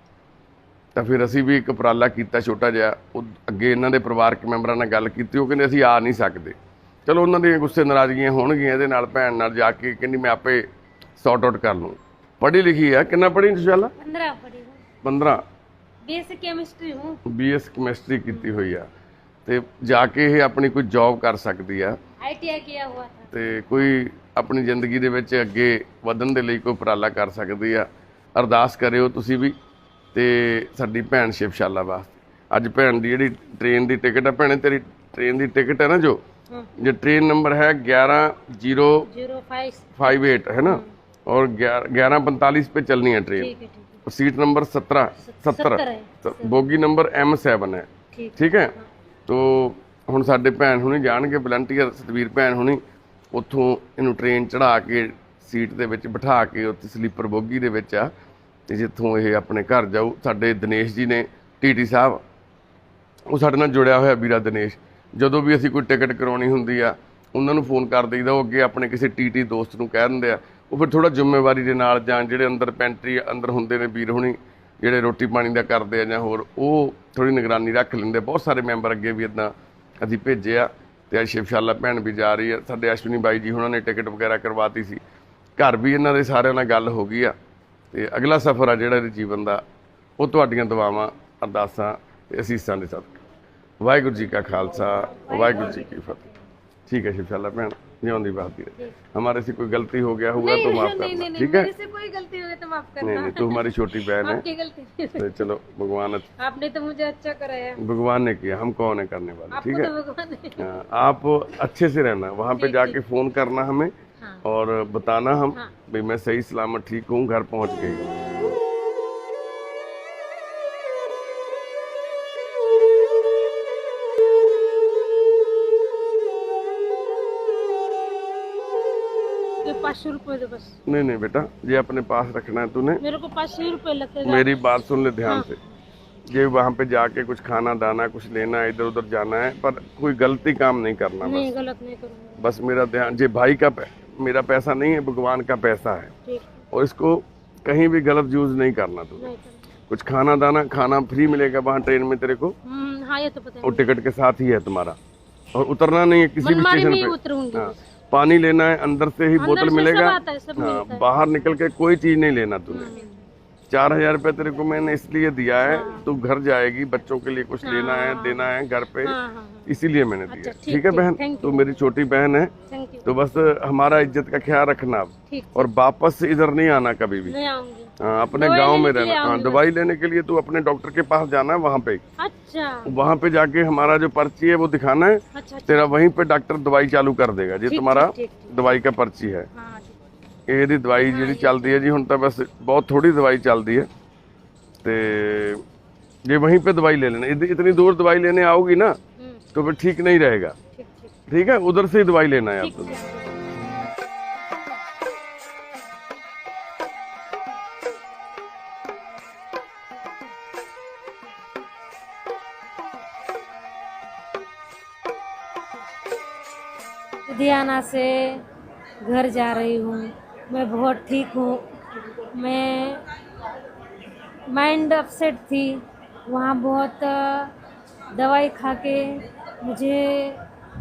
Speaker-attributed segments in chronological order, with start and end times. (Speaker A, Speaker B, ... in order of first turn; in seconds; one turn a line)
Speaker A: 0.9-10.7
Speaker A: 11.2-13.9
Speaker B: 14.0-14.8
Speaker A: 15.0-15.4
Speaker B: 16.1-17.2
Speaker A: 17.3-18.9
Speaker A: 19.5-22.0
Speaker B: 22.2-23.3
Speaker A: 23.3-29.6
Speaker A: 30.1-36.2
Speaker A: 36.8-39.1
Speaker B: 39.1-40.1
Speaker A: 40.0-43.5
Speaker B: 40.6-40.9
Speaker B: 43.4-44.0
Speaker A: 44.0-48.8
Speaker B: 45.3-46.6
Speaker B: 48.1-48.9
Speaker A: 49.3-52.8
Speaker A: 53.3-58.1
Speaker A: 58.7-62.2
Speaker A: 63.3-85.0
Speaker A: 85.6-87.3
Speaker A: 87.9-89.6
Speaker A: 90.2-93.1
Speaker A: 93.8-96.2
Speaker B: 95.1-96.3
Speaker A: 96.9-101.7
Speaker B: 100.3-105.5
Speaker A: 103.0-104.4
Speaker A: 105.2-106.3
Speaker B: 106.4-107.8
Speaker A: 107.8-109.9
Speaker B: 109.5-110.7
Speaker A: 110.6-118.1
Speaker B: 112.6-113.0
Speaker B: 129.6-130.8
Speaker A: 130.9-133.0
Speaker B: 133.0-134.6
Speaker A: 134.2-135.6
Speaker B: 135.2-135.5
Speaker A: 136.3-141.5
Speaker B: 141.2-142.5
Speaker A: 142.4-146.1
Speaker B: 146.3-146.6
Speaker A: 146.7-149.3
Speaker B: 149.2-149.6
Speaker A: 149.9-152.6
Speaker B: 152.7-153.9
Speaker A: 153.6-155.0
Speaker A: 155.6-162.9
Speaker B: 156.4-157.8
Speaker B: 159.4-161.1
Speaker B: 162.7-163.3
Speaker A: 163.7-169.2
Speaker B: 165.7-166.1
Speaker B: 167.6-169.7
Speaker A: 169.7-172.5
Speaker B: 170.3-171.7
Speaker B: 172.7-173.3
Speaker A: 173.1-177.3
Speaker B: 175.3-175.7
Speaker B: 177.3-179.6
Speaker A: 178.0-182.0
Speaker B: 182.2-182.9
Speaker A: 182.9-189.5
Speaker B: 185.3-185.9
Speaker B: 187.7-188.8
Speaker B: 189.5-189.9
Speaker A: 190.5-193.9
Speaker B: 191.0-191.8
Speaker A: 194.8-195.6
Speaker A: 196.3-199.0
Speaker B: 199.2-199.4
Speaker A: 199.5-200.6
Speaker B: 200.7-201.1
Speaker A: 201.3-203.0
Speaker B: 202.6-203.4
Speaker B: 217.3-218.4
Speaker B: 219.0-223.0
Speaker B: 224.5-227.5
Speaker B: 228.1-230.4